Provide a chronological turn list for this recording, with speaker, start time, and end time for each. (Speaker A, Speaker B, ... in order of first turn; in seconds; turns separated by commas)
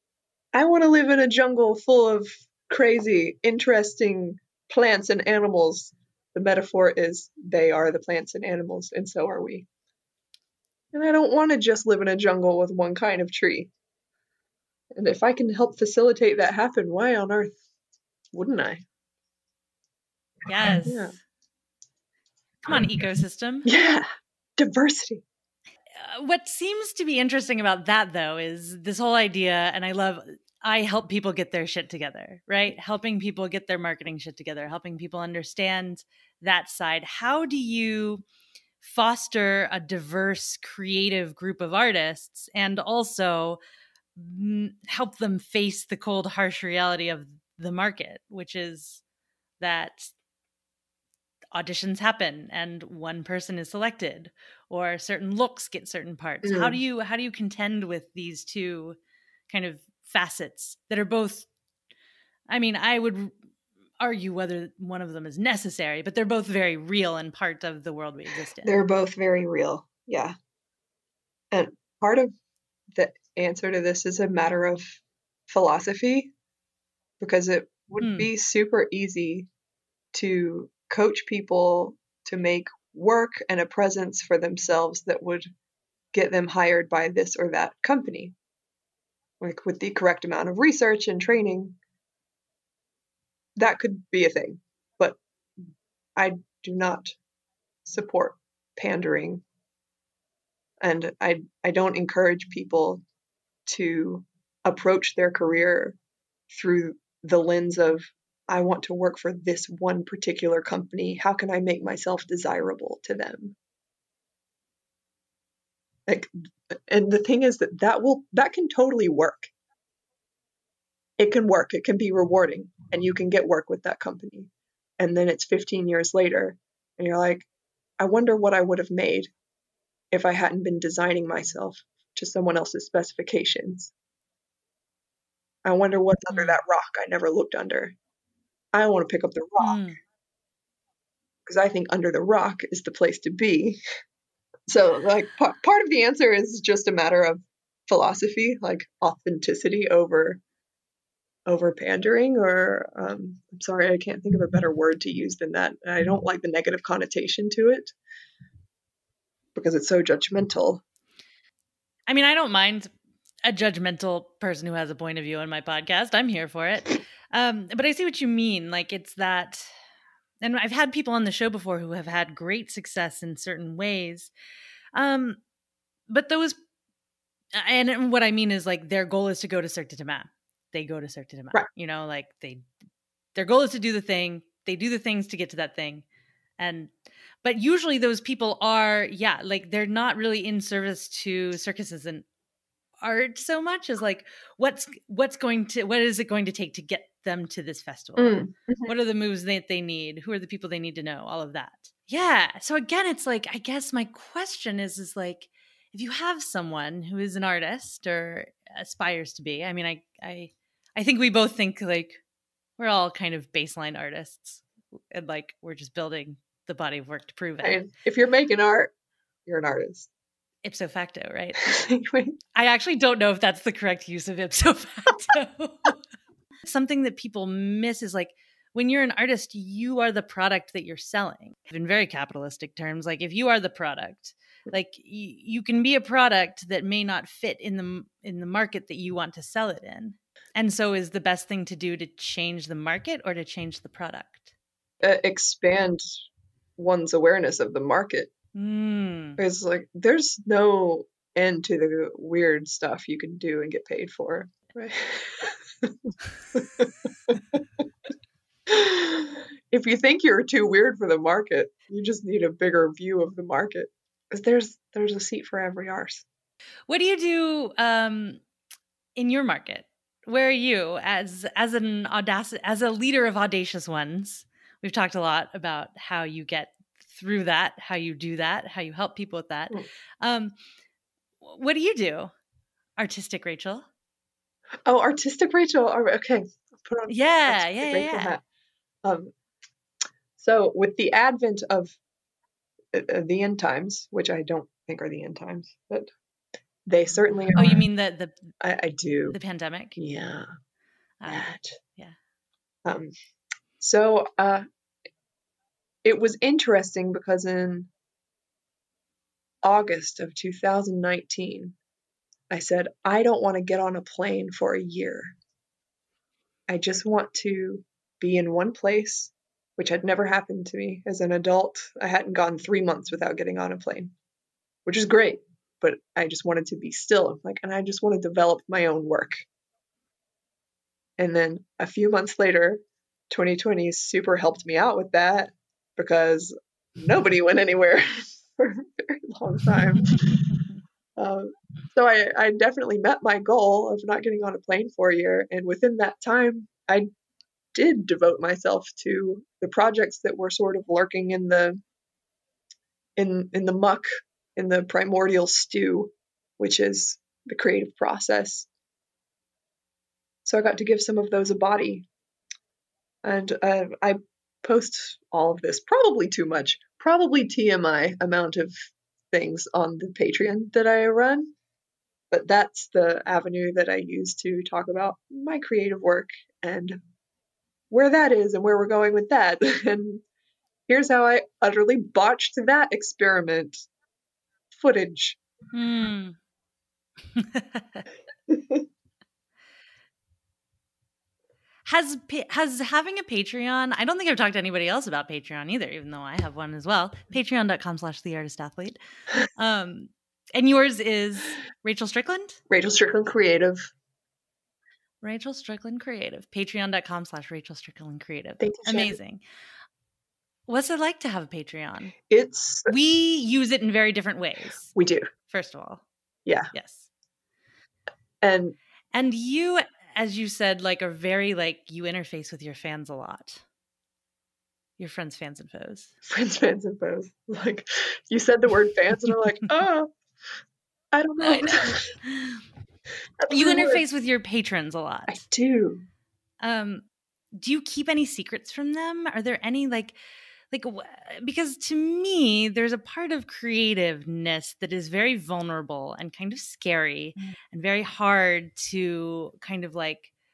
Speaker A: 0.5-9.7, Speaker A: 10.9-13.7, Speaker A: 14.9-17.6, Speaker A: 18.3-18.8, Speaker B: 20.5-21.2, Speaker A: 20.8-21.2, Speaker B: 22.6-23.7, Speaker A: 23.6-24.1, Speaker A: 24.6-25.2, Speaker B: 26.0-38.2, Speaker B: 38.8-43.6, Speaker B: 44.2-49.0, Speaker B: 49.6-50.1, Speaker B: 51.5-59.0, Speaker A: 56.4-56.8, Speaker B: 59.5-61.5, Speaker B: 62.5-63.3, Speaker B: 64.0-68.8, Speaker A: 68.6-70.3, Speaker A: 71.5-72.3, Speaker A: 72.9-76.3, Speaker A: 77.2-79.5, Speaker B: 78.0-78.3, Speaker A: 80.1-85.5, Speaker A: 86.1-88.3, Speaker A: 89.4-91.8, Speaker A: 93.6-95.2, Speaker A: 96.2-97.1, Speaker A: 97.8-99.4, Speaker A: 100.8-103.0, Speaker A: 103.7-106.0, Speaker A: 106.5-113.6, Speaker A: 116.1-119.5, Speaker A: 121.2-127.5, Speaker A: 128.0-129.3, Speaker A: 130.1-133.9, Speaker A: 135.6-137.9, Speaker B: 136.3-136.6, Speaker A: 138.7-139.8, Speaker B: 139.6-140.0, Speaker A: 141.5-143.8, Speaker A: 144.7-150.4, Speaker A: 151.5-157.9, Speaker A: 159.6-160.8, Speaker B: 162.1-162.9, Speaker B: 163.4-169.7, Speaker B: 170.4-174.3, Speaker B: 174.9-175.4, Speaker B: 176.1-176.6, Speaker B: 177.6-182.7, Speaker B: 183.3-186.0, Speaker B: 186.6-186.9, Speaker B: 187.4-192.2, Speaker B: 193.0-212.2, Speaker A: 198.2-198.9, Speaker B: 212.8-217.8, Speaker A: 217.6-218.9, Speaker A: 219.5-220.1, Speaker B: 220.6-221.6, Speaker A: 221.6-222.4, Speaker B: 222.6-226.0, Speaker B: 226.6-244.5, Speaker A: 245.0-246.0, Speaker A: 246.8-248.3, Speaker B: 248.6-249.4, Speaker A: 249.4-255.9, Speaker A: 256.5-257.4, Speaker A: 258.7-266.2, Speaker B: 266.9-268.4, Speaker B: 269.2-280.5, Speaker B: 281.4-282.3, Speaker B: 283.0-283.9, Speaker A: 284.9-288.4, Speaker B: 287.1-288.4, Speaker A: 289.0-289.3, Speaker A: 290.4-292.0, Speaker A: 292.9-296.1, Speaker A: 296.9-297.8, Speaker B: 297.6-298.4, Speaker A: 298.6-299.4, Speaker B: 299.3-300.0, Speaker A: 300.0-300.5, Speaker A: 301.3-301.8, Speaker A: 302.9-303.1, Speaker A: 303.8-304.6, Speaker A: 306.0-307.9, Speaker A: 309.6-311.8, Speaker A: 312.5-315.3, Speaker A: 316.7-324.1, Speaker A: 324.9-329.4, Speaker A: 331.2-340.4, Speaker A: 341.2-347.1, Speaker A: 347.7-351.8, Speaker A: 353.2-358.7, Speaker A: 360.4-362.1, Speaker A: 363.2-368.7, Speaker A: 369.3-371.5, Speaker A: 372.3-377.0, Speaker A: 377.9-380.2, Speaker A: 380.9-383.8, Speaker A: 384.7-385.4, Speaker B: 385.7-386.4, Speaker B: 387.4-388.1, Speaker A: 388.5-388.9, Speaker B: 391.9-399.0, Speaker B: 399.6-402.6, Speaker A: 402.7-403.9, Speaker B: 405.2-409.4, Speaker A: 408.6-409.2, Speaker B: 410.7-412.1, Speaker A: 412.3-412.9, Speaker B: 412.9-414.9, Speaker A: 414.9-415.3, Speaker B: 415.5-416.0, Speaker A: 416.5-416.7, Speaker B: 416.7-417.1, Speaker A: 418.4-418.8, Speaker B: 419.1-423.6, Speaker B: 425.0-426.1, Speaker A: 426.3-430.1, Speaker A: 431.1-432.1, Speaker B: 431.4-432.6, Speaker A: 433.4-434.0, Speaker B: 433.5-435.4, Speaker A: 435.3-436.1, Speaker B: 436.6-440.2, Speaker B: 440.7-450.3